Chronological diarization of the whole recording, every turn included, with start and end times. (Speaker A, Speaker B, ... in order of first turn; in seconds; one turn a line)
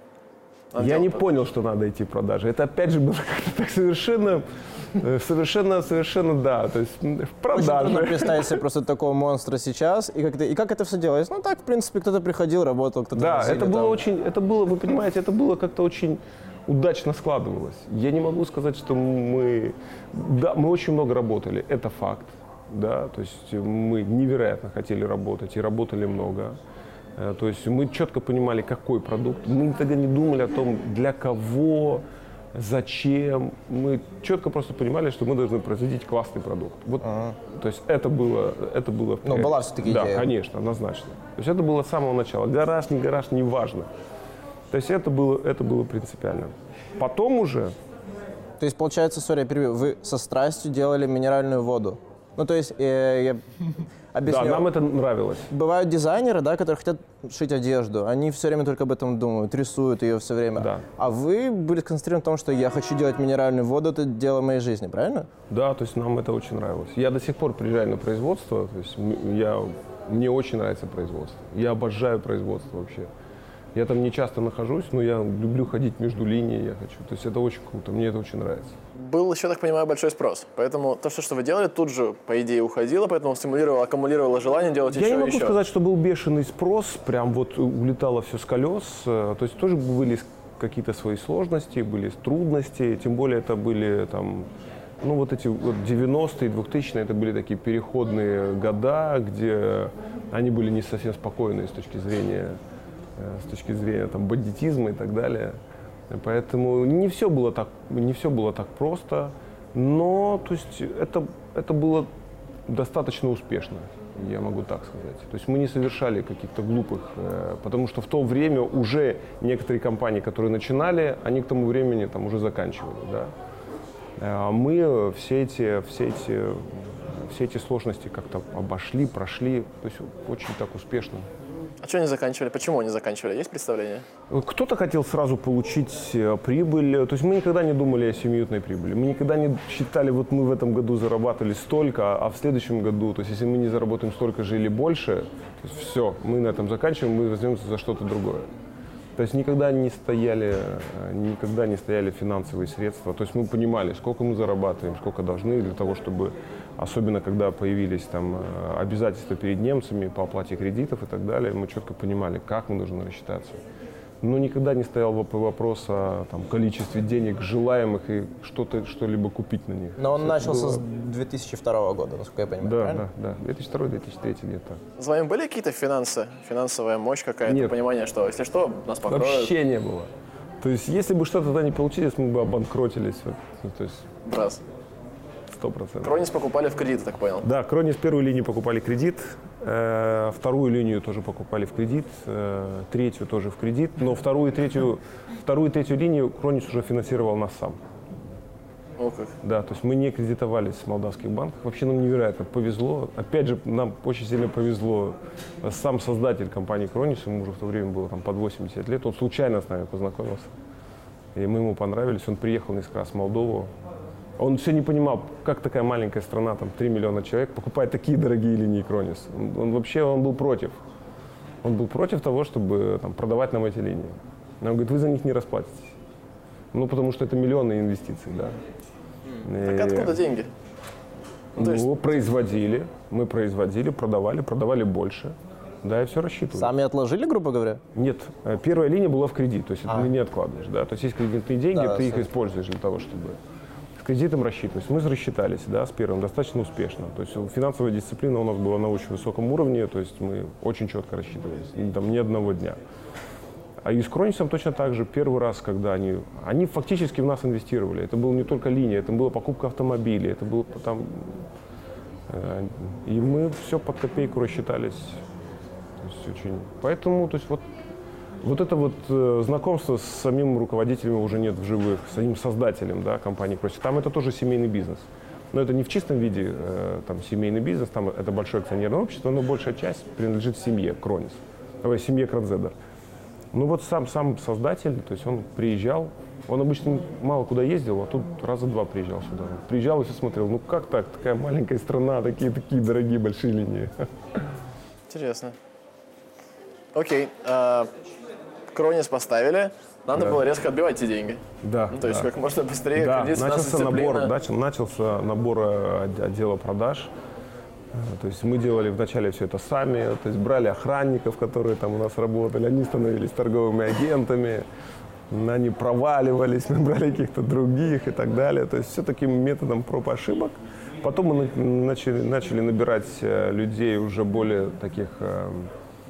Speaker A: 0.7-1.2
Speaker B: 0.8-8.6
Speaker C: 7.5-14.0
Speaker B: 13.1-26.6
Speaker B: 27.1-43.9
Speaker C: 37.0-37.4
Speaker C: 39.2-40.3
Speaker B: 44.7-47.8
Speaker C: 48.6-53.4
Speaker C: 54.1-54.7
Speaker B: 54.2-55.5
Speaker C: 55.5-65.3
Speaker B: 60.6-60.9
Speaker B: 65.5-73.1
Speaker B: 73.7-78.8
Speaker A: 78.9-85.6
Speaker B: 84.9-94.5
Speaker B: 95.0-102.6
Speaker B: 103.2-105.6
Speaker B: 106.1-112.1
Speaker B: 112.7-123.3
Speaker B: 124.2-131.3
Speaker A: 131.8-134.1
Speaker B: 134.3-148.5
Speaker B: 149.2-163.6
Speaker B: 164.2-170.8
Speaker C: 170.0-173.0
Speaker B: 172.6-174.8
Speaker A: 175.0-179.5
Speaker B: 177.4-177.8
Speaker B: 179.1-184.1
Speaker A: 184.3-184.6
Speaker B: 185.5-186.2
Speaker A: 186.0-187.4
Speaker B: 187.4-197.8
Speaker A: 199.0-199.3
Speaker B: 199.4-210.5
Speaker B: 211.3-213.7
Speaker B: 214.4-220.8
Speaker B: 221.6-226.0
Speaker B: 226.7-228.6
Speaker A: 229.4-230.5
Speaker B: 229.4-230.2
Speaker A: 231.6-231.8
Speaker B: 231.6-236.7
Speaker C: 236.6-237.8
Speaker B: 237.9-243.4
Speaker C: 241.7-242.3
Speaker B: 244.0-252.8
Speaker B: 253.8-261.5
Speaker B: 262.3-265.2
Speaker B: 266.0-267.7
Speaker B: 268.4-282.7
Speaker B: 283.5-294.5
Speaker A: 295.1-295.6
Speaker A: 296.9-297.9
Speaker A: 298.7-304.3
Speaker B: 300.1-300.4
Speaker B: 301.6-302.3
Speaker B: 302.9-307.1
Speaker B: 307.9-314.6
Speaker B: 315.3-325.7